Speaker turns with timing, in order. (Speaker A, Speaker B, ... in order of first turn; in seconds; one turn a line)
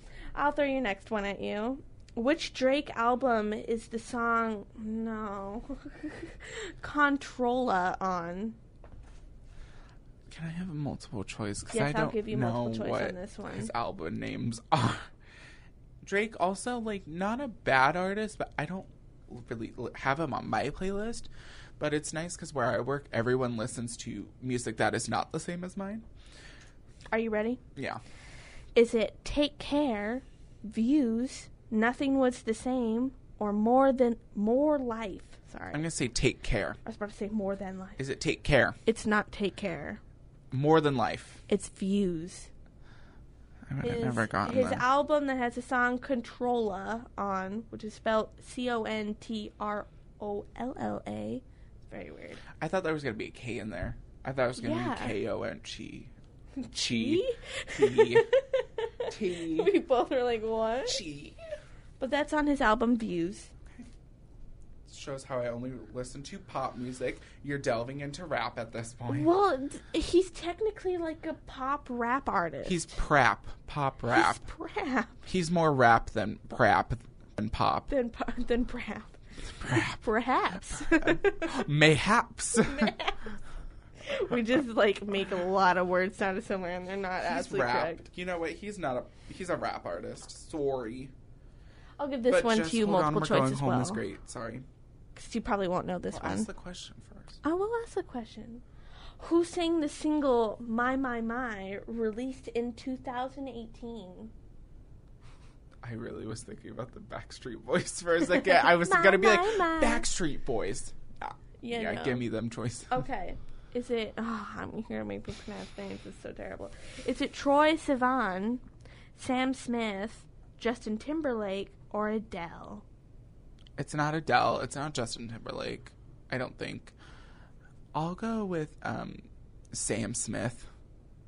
Speaker A: 0.3-8.6
Speaker B: 10.3-15.1
Speaker A: 11.7-13.7
Speaker B: 16.0-26.0
Speaker A: 27.1-27.6
Speaker B: 27.8-28.0
Speaker A: 28.7-35.8
Speaker B: 35.7-36.8
Speaker A: 36.8-38.0
Speaker B: 38.0-38.8
Speaker A: 38.9-40.0
Speaker B: 40.5-41.4
Speaker A: 41.5-42.5
Speaker B: 43.7-44.8
Speaker A: 43.8-52.4
Speaker B: 52.6-56.1
Speaker A: 54.6-55.1
Speaker A: 56.6-61.0
Speaker B: 56.8-58.2
Speaker B: 59.1-59.7
Speaker B: 60.9-61.4
Speaker A: 62.0-63.5
Speaker B: 64.8-69.3
Speaker A: 69.1-73.0
Speaker B: 72.6-74.4
Speaker A: 74.1-75.2
Speaker B: 75.3-77.9
Speaker A: 77.9-81.7
Speaker B: 79.6-80.0
Speaker B: 80.7-82.9
Speaker A: 82.5-83.3
Speaker A: 84.0-88.0
Speaker B: 87.2-91.1
Speaker A: 92.0-94.0
Speaker B: 92.3-94.6
Speaker A: 95.2-96.5
Speaker B: 96.1-97.4
Speaker A: 97.4-98.6
Speaker A: 99.2-104.3
Speaker B: 105.8-113.0
Speaker A: 108.4-110.1
Speaker A: 111.6-112.2
Speaker A: 112.9-118.6
Speaker A: 119.1-122.8
Speaker B: 123.8-126.9
Speaker B: 127.9-130.7